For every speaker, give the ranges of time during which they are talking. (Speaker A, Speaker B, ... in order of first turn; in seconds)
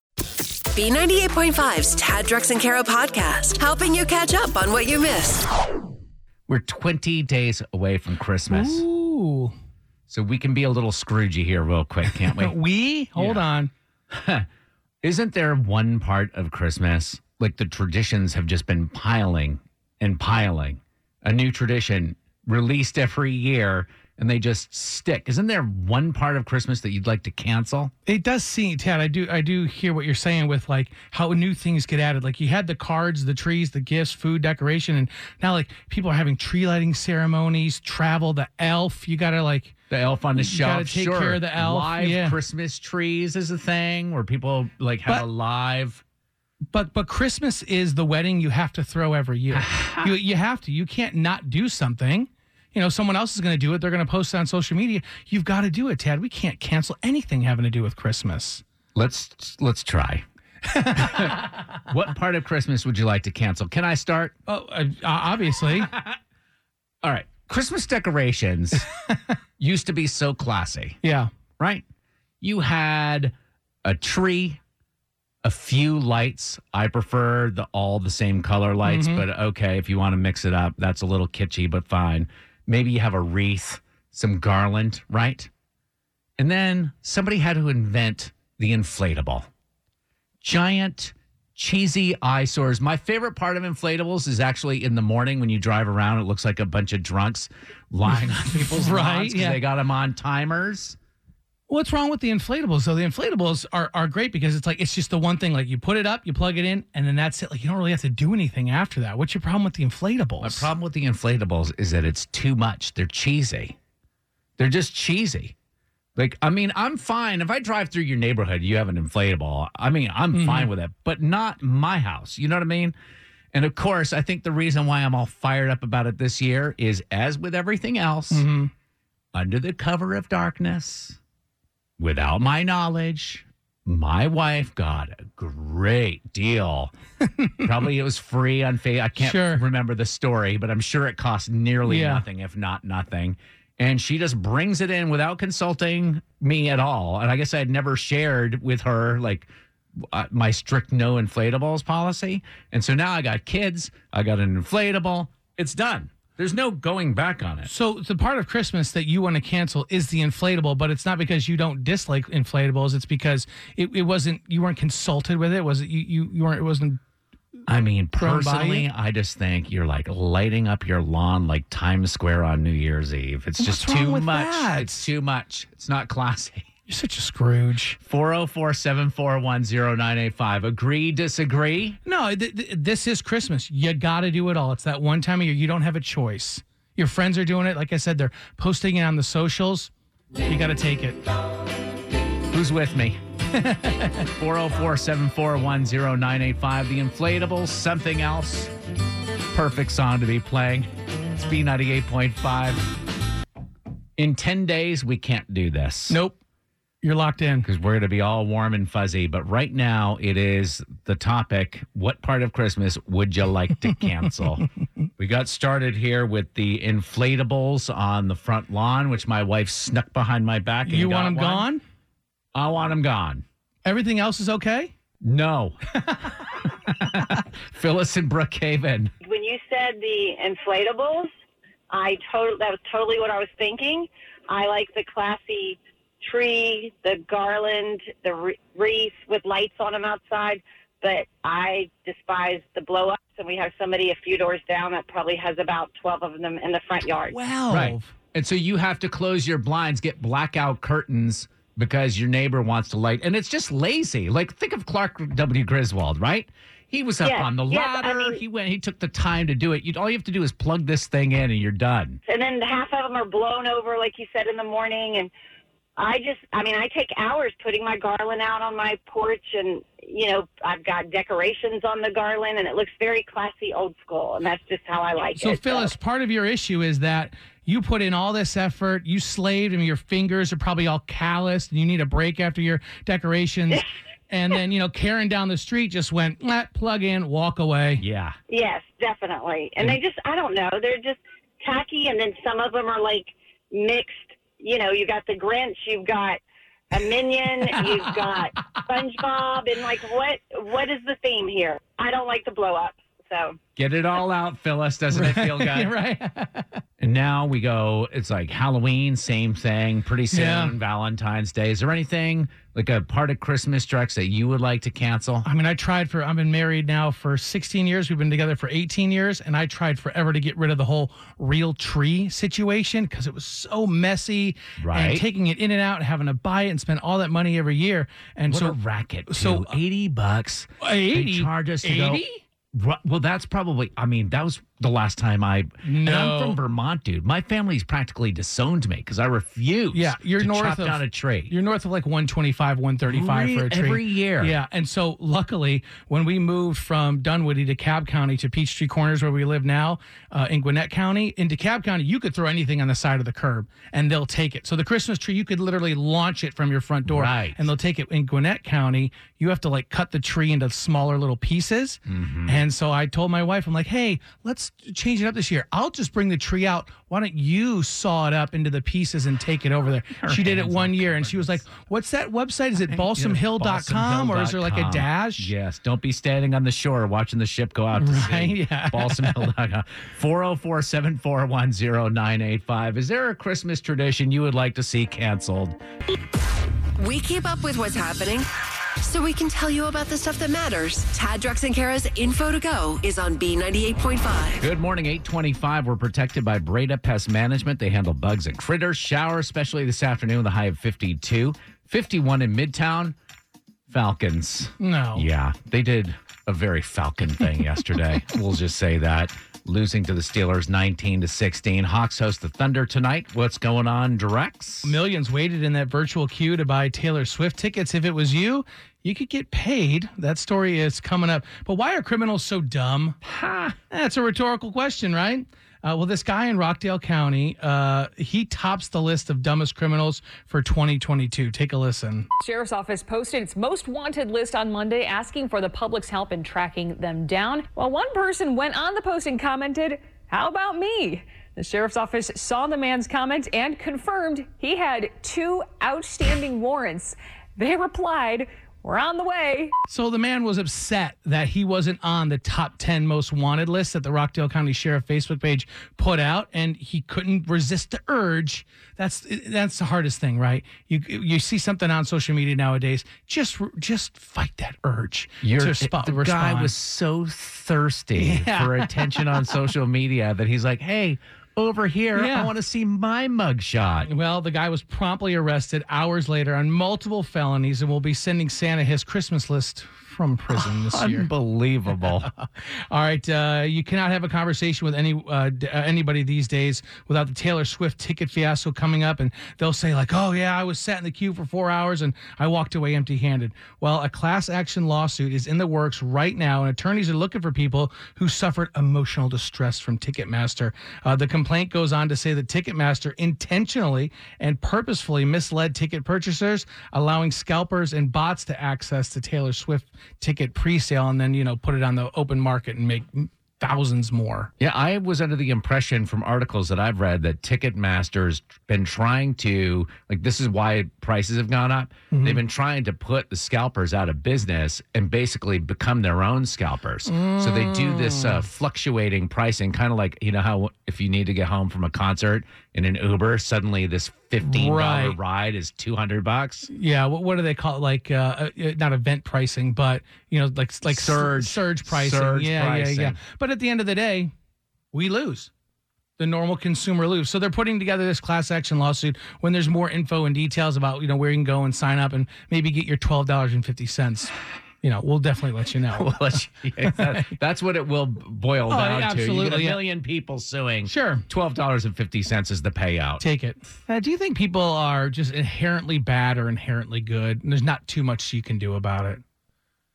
Speaker A: 0.7-5.5, 387.0-388.5, 389.0-394.7
Speaker B: 6.5-8.8, 10.1-12.6, 13.2-13.4, 14.1-14.5, 15.0-27.9, 39.9-46.0, 49.5-50.2, 58.9-60.2, 60.9-64.3, 65.8-66.2, 67.0-68.9, 69.6-71.0, 71.6-71.8, 72.4-74.6, 75.4-85.5, 86.4-89.5, 90.4-101.0, 110.4-113.8, 114.6-115.5, 116.2-123.0, 123.5-128.5, 129.3-131.2, 132.0-136.9, 137.6-157.7, 167.7-176.7, 178.0-182.0, 192.5-193.2, 194.3-198.7, 199.5-202.9, 204.2-206.2, 207.6-214.7, 215.2-221.7, 222.5-223.4, 225.2-225.8, 226.8-229.1, 247.7-262.2, 288.0-288.4, 303.8-305.9, 307.0-315.5, 324.8-325.2, 328.5-341.5, 343.0-344.6, 357.1-357.7, 362.1-362.6, 370.2-371.7, 372.8-385.8, 394.6-403.1, 403.9-415.0, 423.2-423.8, 465.4-474.1, 480.5-482.3, 514.6-536.7, 540.9-543.2, 555.9-563.2
Speaker C: 8.5-9.5, 12.3-13.7, 28.1-39.8, 40.3-42.4, 46.7-58.6, 60.6-61.6, 64.5-65.9, 68.8-69.2, 71.0-71.3, 78.8-79.2, 98.5-99.6, 101.7-110.7, 120.3-120.7, 128.3-128.7, 137.2-137.7, 139.2-139.6, 141.8-142.2, 157.7-167.0, 168.2-168.8, 173.6-175.1, 176.9-178.0, 182.0-191.2, 193.5-194.3, 206.1-206.4, 207.0-207.7, 220.8-221.8, 223.8-224.9, 226.1-226.3, 247.3-248.1, 275.4-288.0, 297.7-298.8, 305.1-306.8, 310.3-310.7, 315.4-328.8, 329.3-329.7, 330.8-332.4, 335.8-336.6, 339.9-375.5, 378.0-379.4, 404.8-405.2, 414.8-423.2, 423.9-432.3, 449.9-466.7, 468.2-469.4, 472.1-472.5, 474.0-481.3, 482.9-514.5, 522.1-522.4, 527.1-528.4, 534.4-535.1, 536.7-544.3, 544.9-545.5, 546.2-556.2, 557.0-557.3, 558.7-559.8, 560.9-561.2, 563.2-569.2
Speaker D: 229.2-231.3, 231.9-247.4, 257.2-258.4, 262.3-265.3, 266.0-275.9, 288.5-296.4, 296.9-303.6
Speaker E: 432.4-449.7